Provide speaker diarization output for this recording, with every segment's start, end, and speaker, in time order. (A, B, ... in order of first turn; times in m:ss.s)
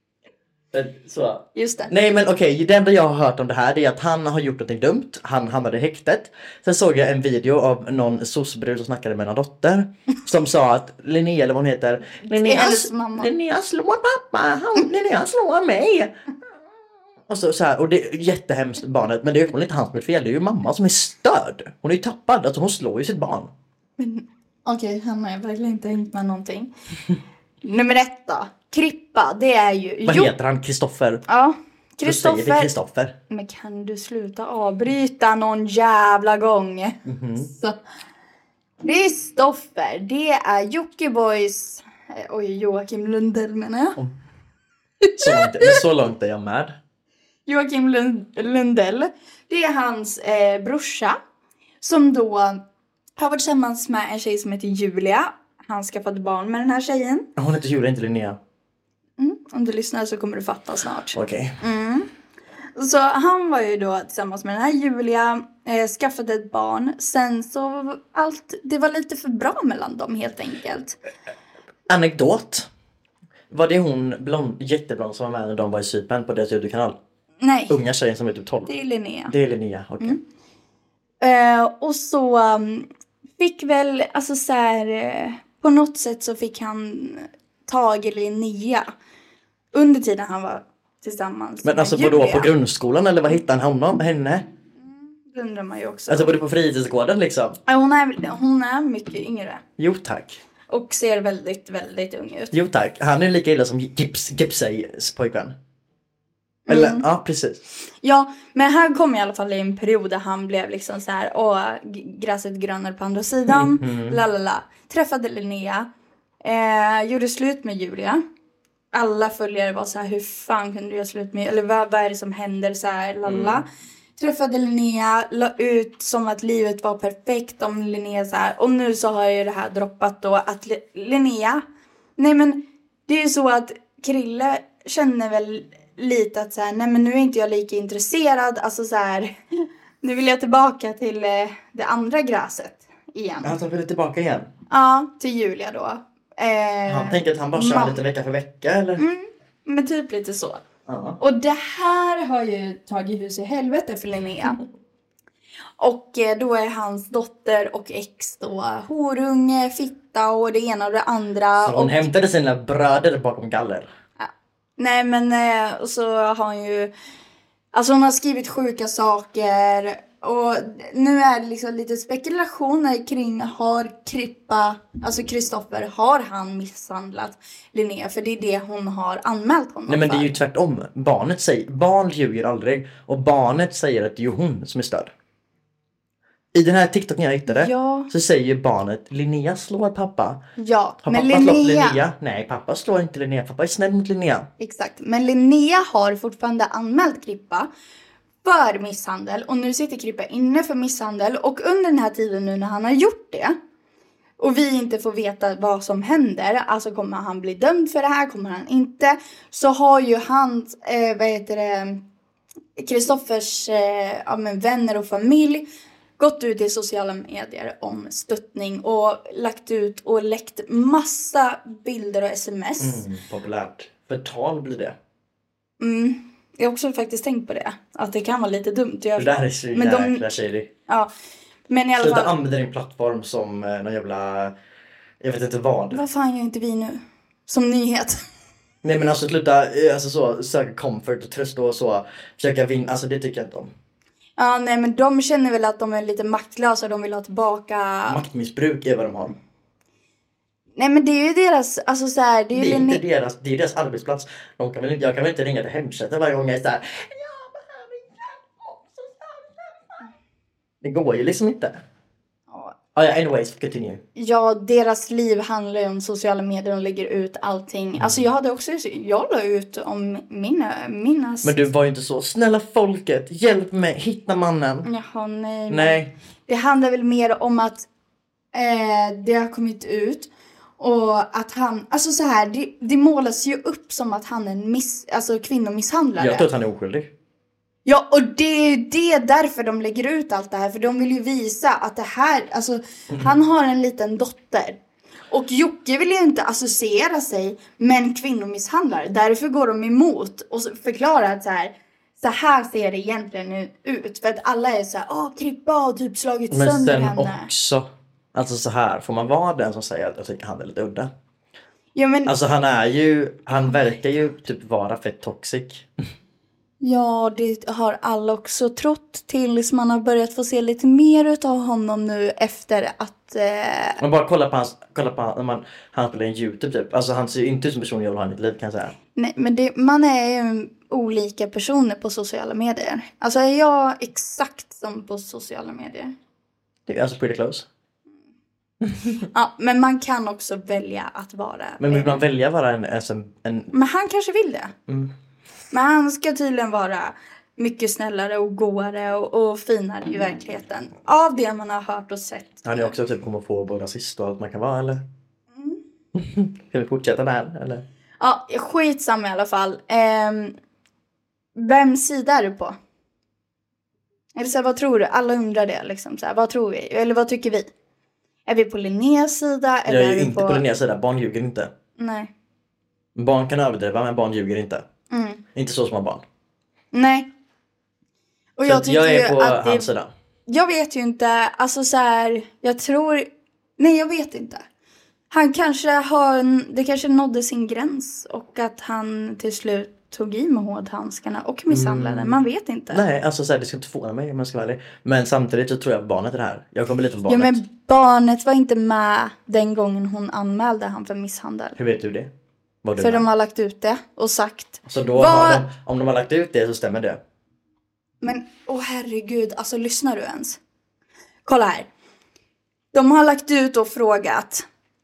0:00.7-0:16.1 A
0:01.5-0:01.9 B
0:12.3-0:13.3 B
0:17.3-0:23.5 A
0:24.0-0:26.7 B
0:27.6-0:30.3 B
0:30.0-0:31.2 A
0:31.3-0:32.7 B
0:32.0-0:33.1 A
0:33.3-0:37.8 B
0:37.0-0:37.5 A
0:38.8-0:44.0 B
0:45.0-0:45.8 B
0:45.2-0:46.8 A
0:47.5-0:51.2 B
0:51.8-0:52.6 B
0:53.2-0:57.2 B
0:57.4-0:58.4 A
0:59.2-1:02.1 B
1:01.1-1:01.6 A
1:02.8-1:11.0 B
1:11.9-1:12.7 A
1:13.5-1:17.0 A
1:17.4-1:17.7 B
1:17.7-1:18.7 A
1:18.6-1:19.3 B
1:19.3-1:20.2 A
1:21.2-1:22.9 B
1:23.4-1:28.9 B
1:29.7-1:32.5 B
1:31.6-1:34.4 A
1:34.8-1:36.4 B
1:36.1-1:37.6 A
1:37.7-1:39.6 B
1:39.8-1:40.4 A
1:40.7-1:42.5 B
1:42.5-1:45.5 A
1:46.7-1:47.0 B
1:46.7-1:47.6 A
1:48.0-1:55.9 B
1:53.5-1:54.2 A
1:56.4-1:58.2 B
1:58.9-2:11.6 B
2:03.2-2:03.6 A
2:12.2-2:19.4 B
2:20.0-2:23.6 B
2:23.4-2:24.5 A
2:24.7-2:28.0 B
2:26.9-2:29.0 A
2:29.0-2:30.6 B
2:30.9-2:31.2 A
2:31.2-2:34.6 B
2:35.8-2:42.1 B
2:41.6-2:43.9 A
2:44.2-2:46.9 B
2:47.7-3:00.3 B
2:59.9-3:05.1 A
3:06.5-3:10.4 A
3:07.5-3:08.1 B
3:10.6-3:12.0 B
3:11.0-3:14.5 A
3:14.6-3:17.7 B
3:18.4-3:23.6 B
3:24.4-3:32.0 B
3:32.8-3:35.6 B
3:36.2-3:43.0 B
3:42.8-3:45.0 A
3:45.8-3:50.2 B
3:49.2-3:50.7 A
3:51.7-3:52.3 B
3:52.0-3:54.5 A
3:55.2-3:56.0 A
3:55.9-3:58.2 B
3:58.8-4:03.7 A
4:04.4-4:08.2 B
4:08.1-4:09.4 A
4:10.8-4:13.0 B
4:12.5-4:20.0 A
4:20.8-4:21.8 A
4:22.9-4:24.0 A
4:24.2-4:31.6 B
4:31.4-4:34.9 A
4:34.8-4:37.8 B
4:35.7-4:36.1 A
4:38.5-4:46.5 B
4:46.2-4:47.1 A
4:47.8-4:54.8 B
4:55.3-5:07.5 B
5:06.5-5:11.1 A
5:11.9-5:12.3 B
5:12.2-5:15.9 A
5:16.8-5:24.0 B
5:24.0-5:28.9 A
5:29.2-5:36.1 B
5:36.9-5:37.6 A
5:38.8-5:39.2 A
5:39.3-5:42.2 B
5:41.8-5:43.7 A
5:43.7-5:44.7 B
5:45.7-5:52.9 B
5:52.6-5:55.0 A
5:55.5-5:55.8 B
5:56.1-5:57.8 A
5:58.2-6:00.5 B
6:01.6-6:02.8 B
6:04.3-6:07.7 B
6:08.5-6:10.6 B
6:09.9-6:11.7 A
6:12.0-6:12.3 B
6:13.2-6:14.8 A
6:15.1-6:15.4 B
6:15.5-6:16.2 A
6:16.9-6:17.3 B
6:18.6-6:19.9 B
6:18.6-6:20.1 A
6:20.5-6:24.6 B
6:25.3-6:33.0 B
6:31.7-6:37.6 A
6:37.3-6:41.8 B
6:41.8-6:42.3 A
6:42.8-6:43.2 A
6:43.0-6:45.7 B
6:44.8-6:47.2 A
6:48.2-6:50.6 B
6:51.4-6:51.9 B
6:52.9-6:54.6 B